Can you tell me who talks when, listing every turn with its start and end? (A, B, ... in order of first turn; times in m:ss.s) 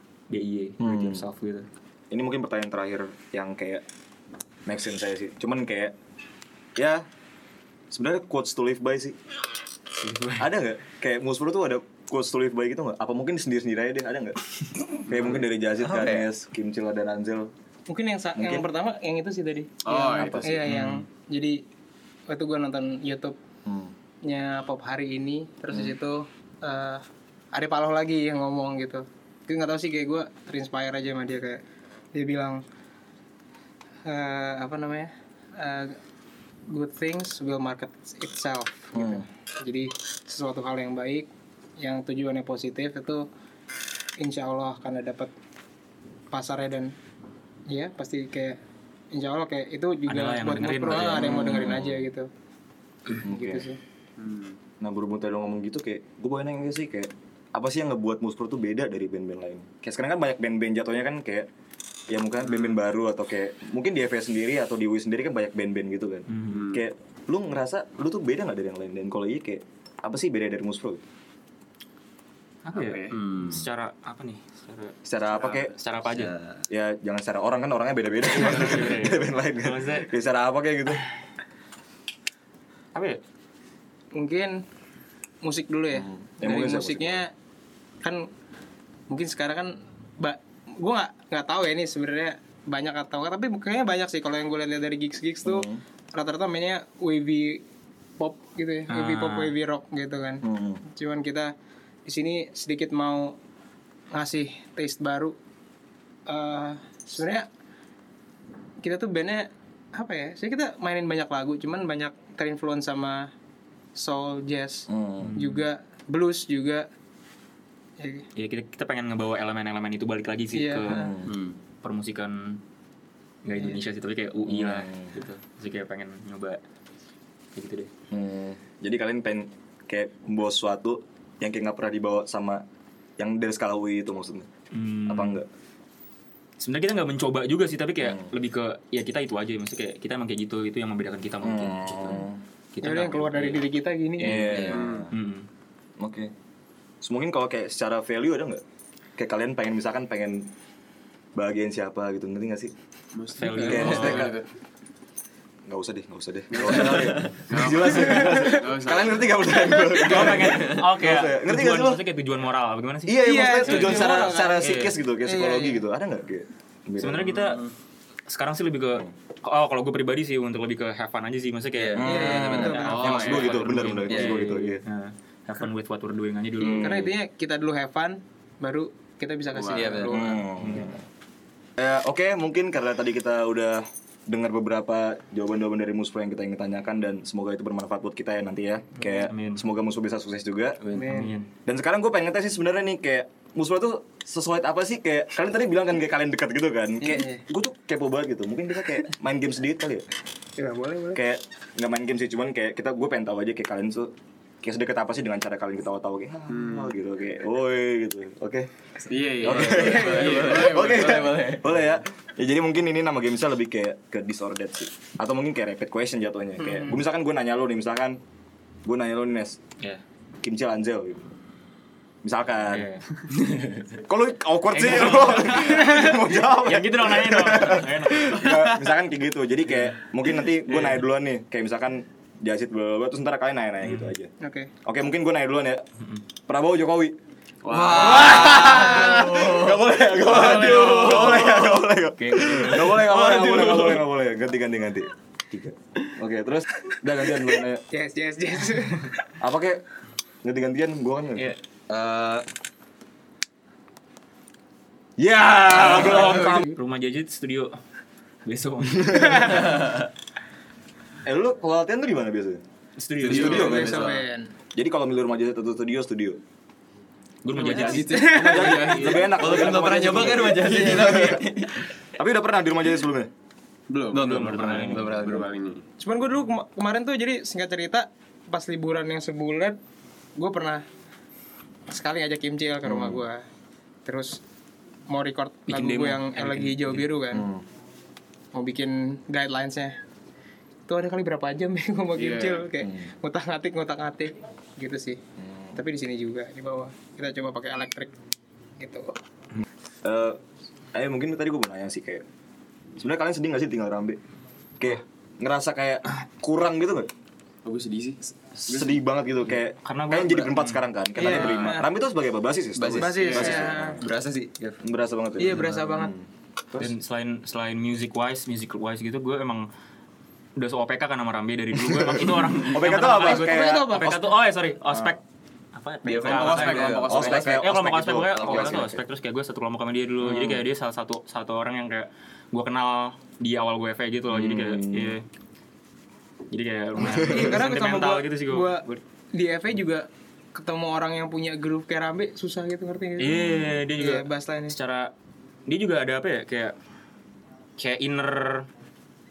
0:00.3-0:01.7 A
0:00.8-0:01.2 B
0:02.1-0:03.8 B
0:04.7-0:06.0 B
0:06.8-0:07.0 B
0:07.9-0:09.2 B
0:10.0-0:10.5 A
0:10.4-0:14.4 B
0:15.1-0:17.5 B
0:15.2-0:16.3 C
0:17.9-0:21.6 D
0:18.4-0:18.7 B
0:19.8-0:20.6 E
0:20.1-0:20.7 B
0:20.7-0:21.0 A
0:22.3-0:23.4 D
0:23.7-0:23.9 B
0:24.2-0:31.6 D
0:32.1-0:32.6 D
0:34.1-0:36.0 D
0:36.7-0:41.3 D
0:38.9-0:39.2 B
0:41.8-0:43.3 D
0:44.2-0:45.3 D
0:46.3-0:46.9 D
0:47.7-0:48.6 D
0:49.1-0:52.3 D
0:50.1-0:51.8 A
0:50.9-0:52.0 B
0:53.2-0:53.8 D
0:53.2-0:53.7 B
0:54.2-0:54.6 E
0:54.8-1:01.5 B
1:02.1-1:11.0 B
1:06.3-1:06.7 A
1:06.5-1:06.8 E
1:12.6-1:16.3 A
1:12.7-1:13.2 E
1:13.1-1:13.7 C
1:15.0-1:15.7 B
1:16.1-1:16.6 C
1:16.7-1:21.0 B
1:18.3-1:20.1 A
1:23.0-1:23.2 A
1:24.1-1:24.6 D
1:25.4-1:27.3 D
1:25.9-1:27.2 B
1:28.0-1:28.3 D
1:29.1-1:37.6 D
1:35.4-1:35.8 B
1:38.2-1:41.5 D
1:38.9-1:39.5 A
1:40.4-1:40.8 B
1:42.1-1:43.4 D
1:44.1-1:45.4 D
1:46.3-1:47.5 D
1:48.8-1:53.3 D
1:54.0-1:56.9 D
1:54.9-1:55.4 B
1:55.2-1:55.6 A
1:58.0-1:58.3 D
1:58.4-2:01.1 A
2:00.5-2:01.2 D
2:00.9-2:01.3 B
2:01.3-2:01.6 C
2:01.8-2:02.6 A
2:03.4-2:06.6 A
2:04.5-2:05.2 B
2:07.6-2:07.9 A
2:08.1-2:12.6 B
2:13.2-2:14.5 B
2:14.7-2:15.4 A
2:15.1-2:15.5 B
2:16.6-2:23.6 A
2:18.0-2:18.3 B
2:21.4-2:22.4 B
2:22.8-2:24.6 D
2:24.2-2:25.1 B
2:24.3-2:25.5 A
2:24.5-2:24.8 C
2:24.7-2:25.1 E
2:26.0-2:26.3 B
2:27.0-2:28.6 B
2:29.2-2:30.5 B
2:31.4-2:32.7 B
2:33.2-2:34.5 E
2:33.4-2:34.3 A
2:33.6-2:34.4 B
2:35.7-2:42.0 B
2:36.5-2:40.4 E
2:36.6-2:37.4 C
2:38.2-2:38.5 D
2:39.9-2:45.0 A
2:40.5-2:40.8 C
2:43.1-2:47.5 B
2:43.2-2:45.8 D
2:47.0-2:47.7 A
2:48.3-2:57.0 A
2:51.8-2:53.0 C
2:52.0-2:54.8 B
2:52.0-2:53.0 D
2:52.9-2:53.6 E
2:54.1-2:54.6 C
2:56.6-2:57.1 B
2:56.6-3:00.8 D
2:59.5-3:00.0 E
2:59.7-3:00.4 C
3:00.1-3:01.0 B
3:00.6-3:00.9 A
3:01.8-3:10.8 B
3:09.0-3:09.6 A
3:10.8-3:11.2 C
3:10.9-3:11.3 D
3:11.0-3:11.5 A
3:11.7-3:20.1 B
3:17.0-3:17.4 D
3:20.6-3:21.2 D
3:21.2-3:28.7 B
3:26.5-3:26.9 E
3:29.1-3:31.6 E
3:29.4-3:31.8 C
3:29.4-3:38.2 B
3:36.6-3:36.9 D
3:38.8-3:39.6 B
3:40.4-3:41.3 B
3:42.2-3:42.9 B
3:42.6-3:43.0 A
3:43.4-3:43.8 C
3:44.0-3:54.3 B
3:44.7-3:48.7 A
3:53.8-3:54.1 A
3:54.4-3:54.7 D
3:54.8-3:55.8 B
3:56.5-3:57.2 B
3:57.6-3:58.6 E
3:57.7-4:01.7 C
3:57.8-4:07.8 B
3:58.7-3:59.1 D
4:02.2-4:03.1 A
4:02.9-4:04.0 C
4:07.9-4:09.1 D
4:09.4-4:09.8 B
4:10.4-4:11.6 B
4:11.9-4:12.4 C
4:15.2-4:16.7 B
4:15.7-4:17.8 A
4:18.5-4:19.9 A
4:19.6-4:19.9 C
4:21.2-4:22.6 B
4:23.0-4:24.0 A
4:23.2-4:24.1 B
4:23.2-4:24.2 C
4:23.3-4:24.1 E
4:23.4-4:24.5 D
4:24.8-4:26.4 B
4:27.4-4:28.9 A
4:27.6-4:29.9 E
4:28.1-4:28.7 D
4:28.2-4:31.5 B
4:29.0-4:31.9 C
4:32.1-4:33.3 B
4:33.9-4:35.8 E
4:34.1-4:35.5 C
4:34.2-4:35.2 A
4:36.0-4:39.8 D
4:40.4-4:40.8 D
4:41.9-4:43.4 D
4:42.8-4:43.2 B
4:44.1-4:44.4 D
4:45.1-4:47.5 D
4:45.7-4:47.1 A
4:47.3-4:47.6 B
4:48.5-4:50.0 D
4:50.9-4:55.2 D
4:52.2-4:52.7 E
4:52.8-4:53.1 B
4:55.4-4:55.8 B
4:55.8-4:58.1 D
4:58.8-4:59.1 D
5:00.0-5:00.4 B
5:00.9-5:02.2 B
5:03.0-5:04.2 B
5:04.8-5:07.1 B
5:07.6-5:08.2 E
5:08.6-5:14.1 B
5:08.7-5:09.0 E
5:09.8-5:11.3 A
5:11.2-5:11.9 D
5:12.8-5:14.8 C
5:12.9-5:14.0 D
5:13.2-5:13.6 E
5:14.8-5:16.9 B
5:15.4-5:16.1 D
5:16.8-5:19.7 A
5:20.6-5:25.2 A
5:21.8-5:24.3 B
5:23.2-5:24.1 D
5:24.9-5:25.2 B
5:25.7-5:35.2 A
5:26.0-5:28.9 C
5:26.2-5:27.6 E
5:26.3-5:29.0 B
5:30.2-5:30.6 B
5:34.3-5:35.2 B
5:36.5-5:39.0 A
5:37.0-5:37.5 B
5:37.0-5:38.8 D
5:39.3-5:43.3 D
5:43.2-5:45.1 A
5:43.2-5:43.8 B
5:44.0-5:44.8 D
5:45.7-5:46.7 A
5:47.8-5:48.7 A